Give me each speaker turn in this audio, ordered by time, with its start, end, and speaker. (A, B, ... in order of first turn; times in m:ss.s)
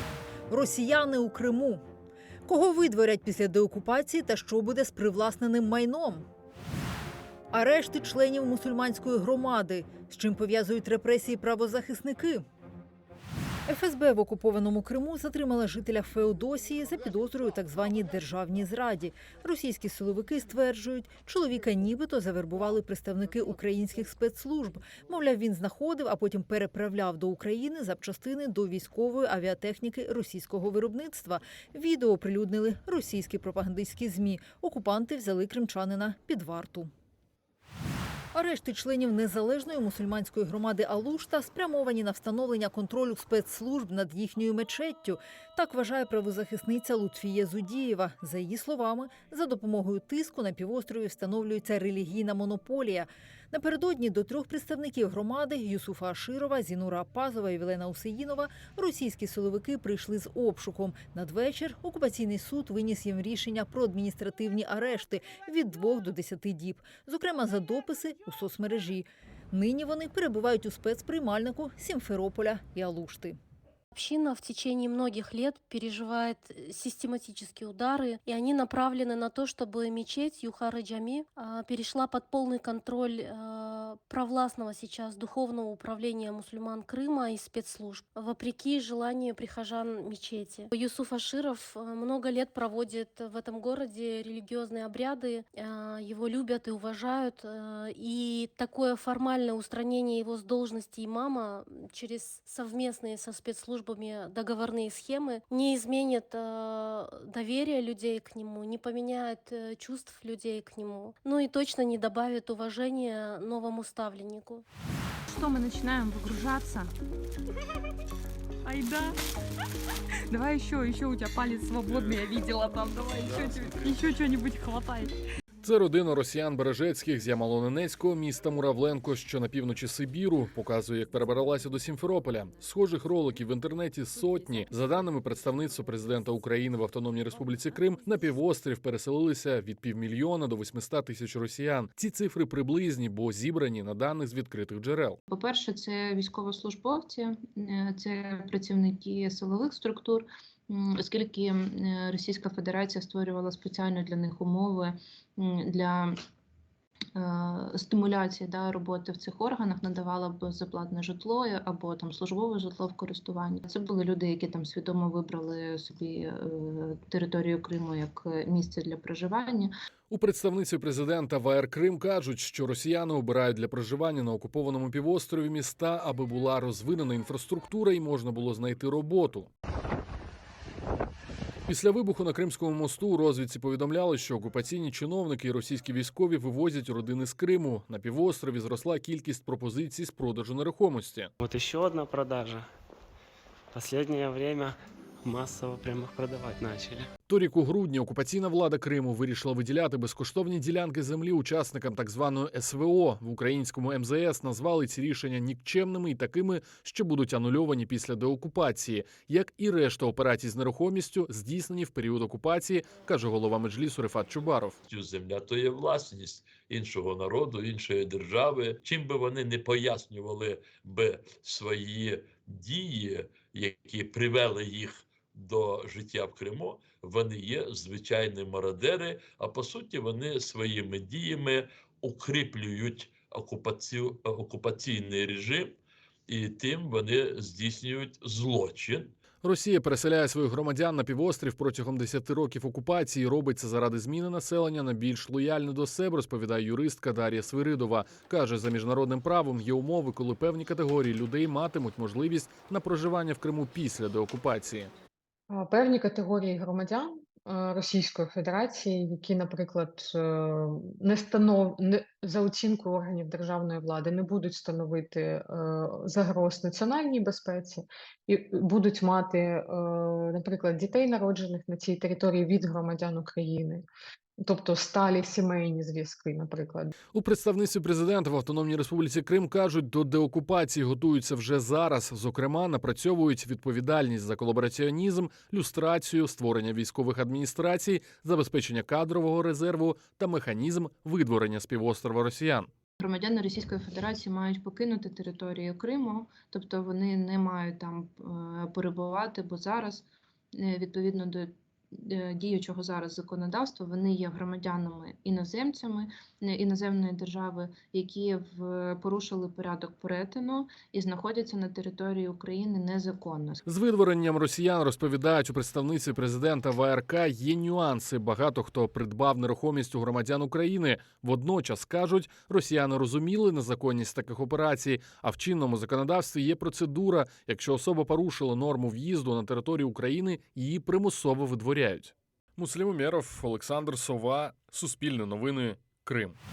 0:00.5-0:01.8 A
0:02.5-0:06.2 A
0:07.5-0:12.5 A
0:13.7-0:36.9 A
0:38.3-1:13.4 A
1:13.9-1:54.6 B
1:55.5-1:56.9 C
1:58.6-1:59.2 C
2:00.3-2:05.1 C
2:05.6-2:25.2 D
2:25.3-2:36.2 E
2:37.2-2:49.7 E
2:50.1-2:59.5 D
3:01.7-3:11.3 D
3:11.4-3:12.7 F
3:13.7-3:17.1 F
3:17.3-3:34.8 D
3:34.9-3:59.2 G
3:59.4-4:14.9 D
4:15.5-4:33.8 H
4:34.4-4:36.9 H
4:37.1-4:52.7 D
4:53.0-5:13.6 E
5:13.7-5:36.4 D